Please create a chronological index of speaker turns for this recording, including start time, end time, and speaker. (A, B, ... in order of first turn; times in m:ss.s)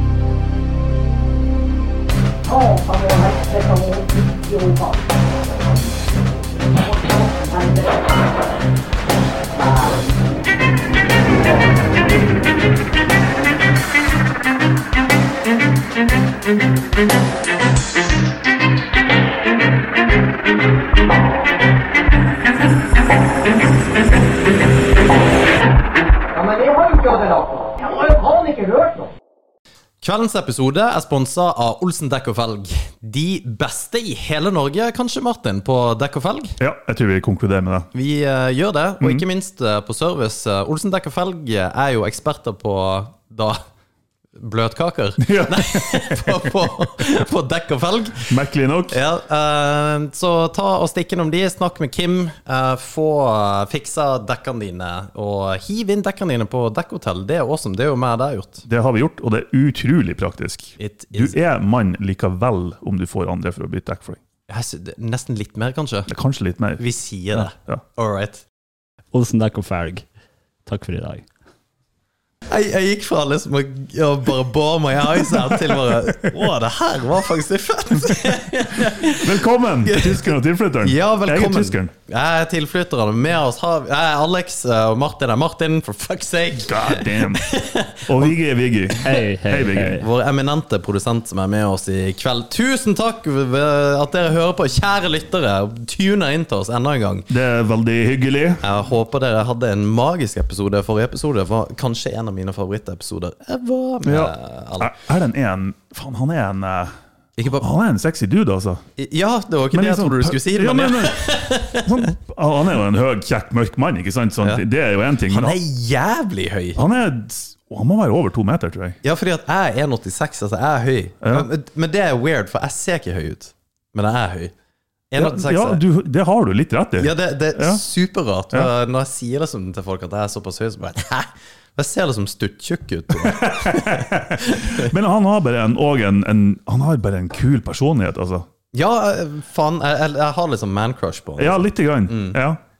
0:02.5-0:05.1 A
0:06.7-0:08.3 A
0:09.5-0:10.2 A
0:26.3-0:29.1 A
0:30.0-0:36.6 B
0:36.6-0:37.9 C
0:37.9-0:43.6 B
0:44.4-0:48.4 B
0:45.2-0:46.2 C
0:48.3-0:49.0 C
0:48.9-0:58.6 B
0:58.7-1:04.2 C
1:00.8-1:01.4 B
1:04.5-1:06.1 B
1:06.1-1:06.8 C
1:06.8-1:08.4 B
1:07.3-1:07.8 C
1:09.1-1:10.0 D
1:10.6-1:11.2 D
1:12.5-1:20.3 B
1:19.0-1:21.9 C
1:20.8-1:28.3 B
1:26.6-1:27.4 C
1:28.0-1:30.0 C
1:29.0-1:30.0 D
1:29.9-1:37.3 B
1:37.3-1:38.6 C
1:38.6-1:44.9 B
1:44.0-1:46.9 C
1:47.4-1:47.6 B
1:47.6-1:48.8 C
1:49.0-1:52.1 B
1:49.7-1:55.6 C
1:55.3-1:56.8 B
1:56.8-1:59.0 C
1:59.0-2:04.5 B
2:01.2-2:01.5 C
2:05.1-2:05.8 B
2:05.1-2:07.8 C
2:07.0-2:14.9 B
2:13.2-2:18.5 C
2:18.7-2:22.4 B
2:21.4-2:22.6 C